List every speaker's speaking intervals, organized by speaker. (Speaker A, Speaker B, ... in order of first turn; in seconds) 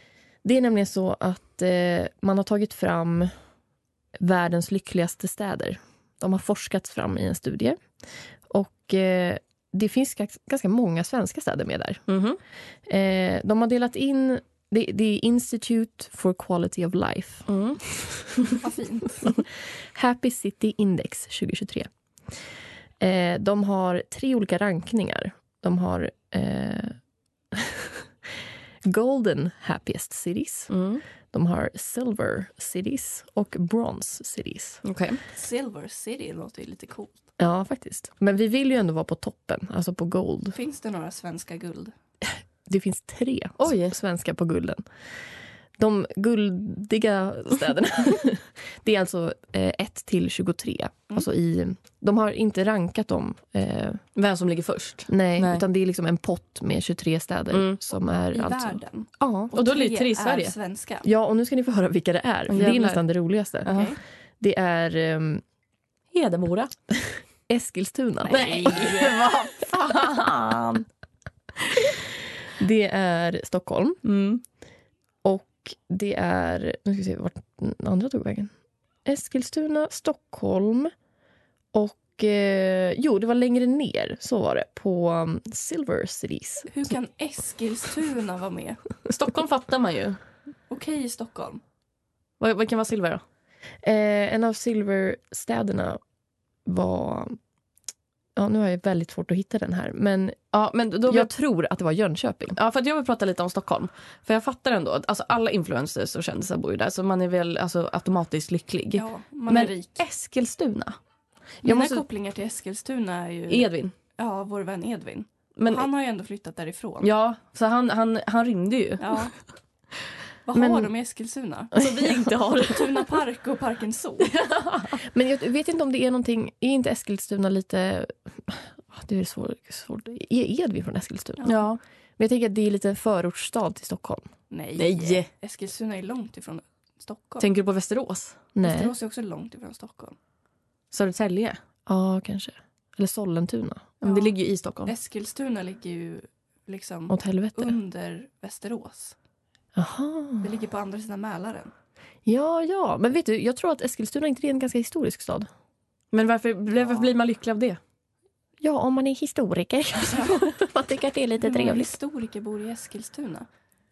Speaker A: 0.4-3.3, 4.2-7.8, 8.5-12.0, 12.9-18.1, 19.2-21.9, 23.0-26.9, 27.5-28.1, 28.9-30.7, 31.3-34.8, 37.4-40.5, 42.2-44.8, 45.8-54.0, 55.1-59.5, 61.0-63.8, 64.4-65.4, 67.5-68.9, 72.6-74.0, 75.2-78.5, 79.0-80.9, 81.7-86.7, 93.8-96.0, 96.6-97.4, 98.4-100.4, 101.1-102.6, 111.6-112.0, 125.0-131.5, 132.2-134.3, 138.6-138.9, 141.9-143.9, 147.1-147.7, 149.7-150.5, 152.2-155.5, 158.6-161.9
Speaker B: 12.1-12.4, 17.5-18.6, 30.7-31.0, 34.8-35.2, 43.6-43.9, 54.1-55.6, 57.5-57.8, 59.5-60.5, 62.5-63.0, 63.6-63.9, 66.1-66.7, 68.3-70.8, 74.0-74.4, 89.1-90.2, 92.4-93.2, 100.5-101.3, 102.5-111.0, 113.5-113.9, 115.6-115.9, 117.0-119.2, 121.7-123.0, 131.4-131.8, 134.8-135.3, 137.4-138.5, 140.9-141.6, 144.0-144.9, 156.1-157.8
Speaker C: 18.6-19.2, 35.3-37.1, 40.5-41.9, 58.3-61.1, 63.6-64.0, 68.7-69.2, 86.7-88.8, 90.7-91.6, 108.9-110.0, 111.6-117.1, 119.0-119.3, 120.5-124.4, 131.4-131.6, 134.5-137.5, 138.6-140.2, 144.0-144.3, 144.9-149.2, 150.4-151.7, 160.1-160.4, 161.4-163.5